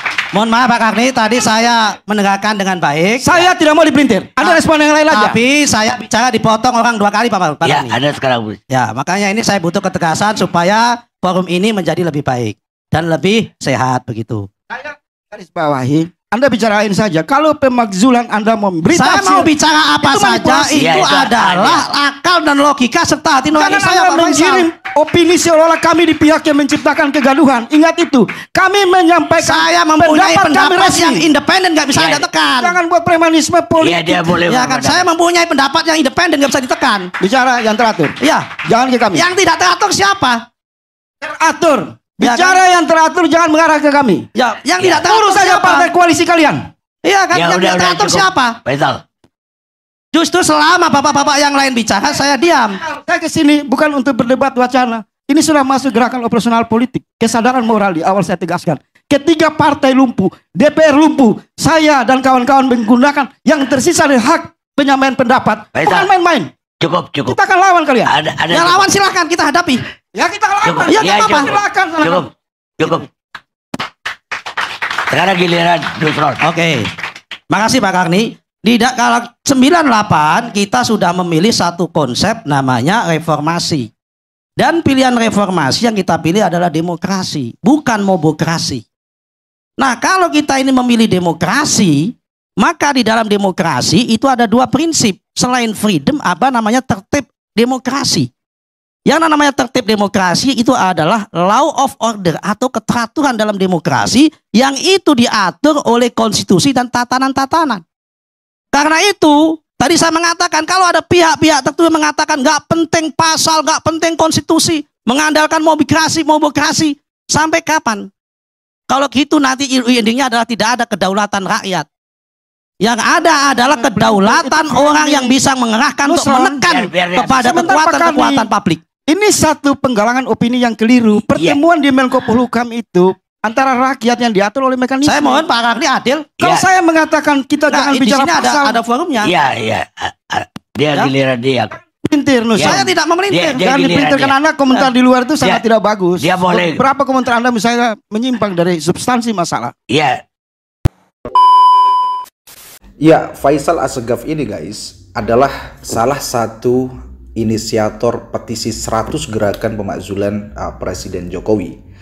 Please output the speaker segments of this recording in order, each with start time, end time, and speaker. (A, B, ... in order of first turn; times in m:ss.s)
0:00.3-0:03.5 A
0:03.2-0:05.4 B
0:04.4-0:08.0 A
0:07.6-0:08.6 C
0:08.7-0:14.5 A
0:14.7-0:19.5 B
0:18.9-0:24.7 A
0:20.0-0:20.7 B
0:20.8-0:21.8 C
0:23.6-0:31.2 B
0:29.4-0:32.7 A
0:31.9-0:32.2 C
0:32.6-0:34.4 B
0:33.8-0:35.0 C
0:34.4-0:37.1 A
0:37.2-0:39.2 B
0:38.2-0:38.6 A
0:39.1-0:40.5 A
0:41.2-0:44.3 B
0:42.2-0:42.6 A
0:44.3-0:45.9 A
0:45.0-0:46.7 B
0:47.0-0:48.6 A
0:47.3-0:49.0 C
0:50.1-0:52.8 A
0:52.8-1:06.5 B
1:05.8-1:06.1 C
1:06.8-1:07.4 C
1:07.2-1:08.2 B
1:08.1-1:08.9 C
1:08.5-1:09.8 A
1:10.1-1:12.3 B
1:10.6-1:12.3 C
1:10.9-1:11.5 A
1:12.8-1:13.0 C
1:15.1-1:16.4 C
1:16.4-1:16.9 A
1:17.5-1:23.9 A
1:24.6-1:28.8 A
1:29.8-1:38.3 A
1:39.0-1:47.8 A
1:48.7-1:58.1 A
1:58.9-2:01.9 A
2:02.8-2:08.8 A
2:03.4-2:05.4 B
2:06.0-2:06.6 B
2:06.7-2:07.4 C
2:07.4-2:08.5 B
2:09.0-2:15.4 B
2:15.0-2:16.5 A
2:16.4-2:18.8 B
2:17.7-2:19.3 A
2:19.2-2:21.8 C
2:22.0-2:22.9 B
2:22.6-2:23.7 A
2:23.3-2:24.3 C
2:23.6-2:29.7 B
2:26.2-2:26.8 C
2:29.9-2:30.2 C
2:33.0-2:41.8 D